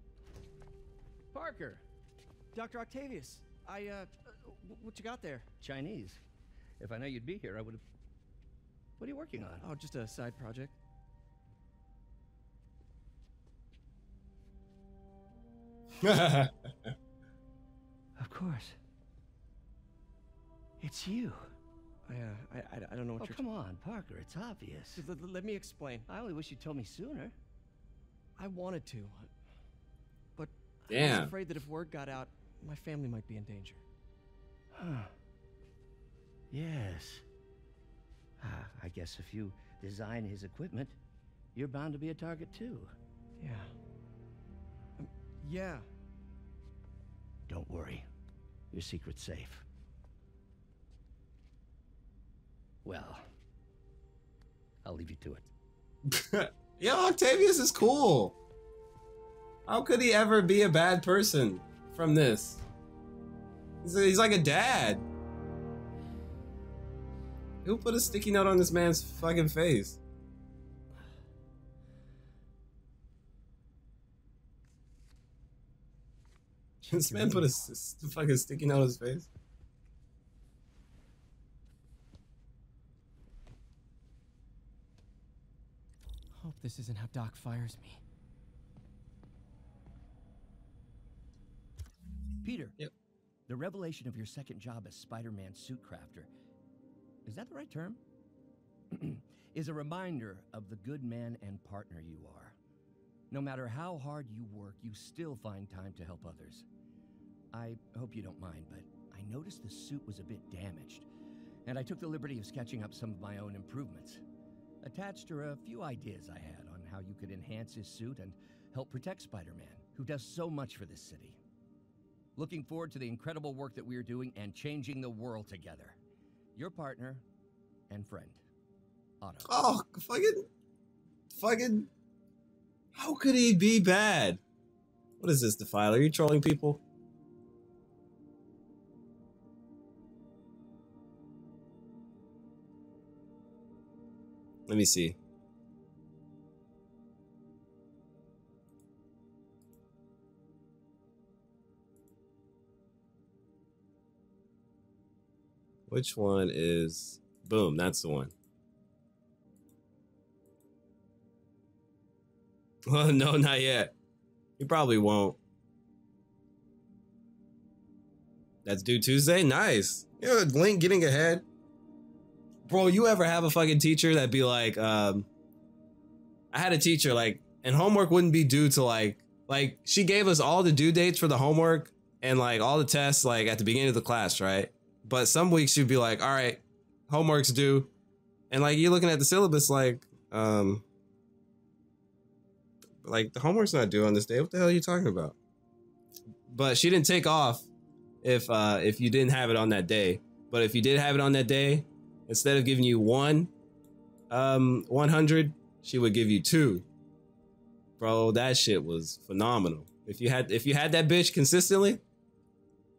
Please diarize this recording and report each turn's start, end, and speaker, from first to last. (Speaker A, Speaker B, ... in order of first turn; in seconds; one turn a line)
Speaker A: 1.4-1.8
Speaker B: 2.5-5.5
Speaker A: 5.6-6.2
Speaker A: 6.8-7.8
Speaker A: 9.0-9.7
Speaker B: 9.6-10.7
Speaker C: 16.0-16.5
Speaker A: 18.2-18.8
Speaker A: 20.8-21.5
Speaker B: 22.1-23.4
Speaker A: 23.2-25.0
Speaker B: 24.9-26.1
Speaker A: 26.0-27.3
Speaker B: 28.4-29.3
Speaker B: 30.4-33.8
Speaker C: 30.9-31.3
Speaker A: 34.7-35.1
Speaker A: 36.5-37.2
Speaker A: 38.4-41.0
Speaker A: 41.5-42.9
Speaker B: 43.4-43.7
Speaker B: 45.0-45.8
Speaker A: 47.5-48.1
Speaker A: 48.7-49.6
Speaker A: 52.8-53.2
Speaker A: 54.8-55.5
Speaker C: 56.1-58.4
Speaker C: 59.7-62.6
Speaker C: 63.8-65.1
Speaker C: 67.6-70.0
Speaker B: 76.8-77.4
Speaker C: 76.9-79.3
Speaker B: 86.4-88.0
Speaker A: 92.4-92.8
Speaker A: 93.5-96.3
Speaker A: 97.2-98.0
Speaker A: 98.9-102.6
Speaker A: 103.3-106.7
Speaker A: 107.5-111.1
Speaker A: 111.7-114.2
Speaker A: 114.8-121.4
Speaker A: 122.3-126.0
Speaker A: 126.5-127.2
Speaker A: 127.9-128.4
Speaker A: 129.2-129.6
Speaker C: 129.4-130.4
Speaker C: 131.3-131.9
Speaker C: 132.9-134.4
Speaker C: 135.2-136.8
Speaker C: 144.7-145.2
Speaker C: 155.9-158.3
Speaker C: 162.9-163.9
Speaker C: 164.6-165.4
Speaker C: 168.6-171.4
Speaker C: 172.7-175.3
Speaker C: 176.5-187.9
Speaker C: 188.5-190.8
Speaker C: 193.0-195.3
Speaker C: 196.5-197.7
Speaker C: 198.2-203.5
Speaker C: 204.3-206.8
Speaker C: 208.0-212.0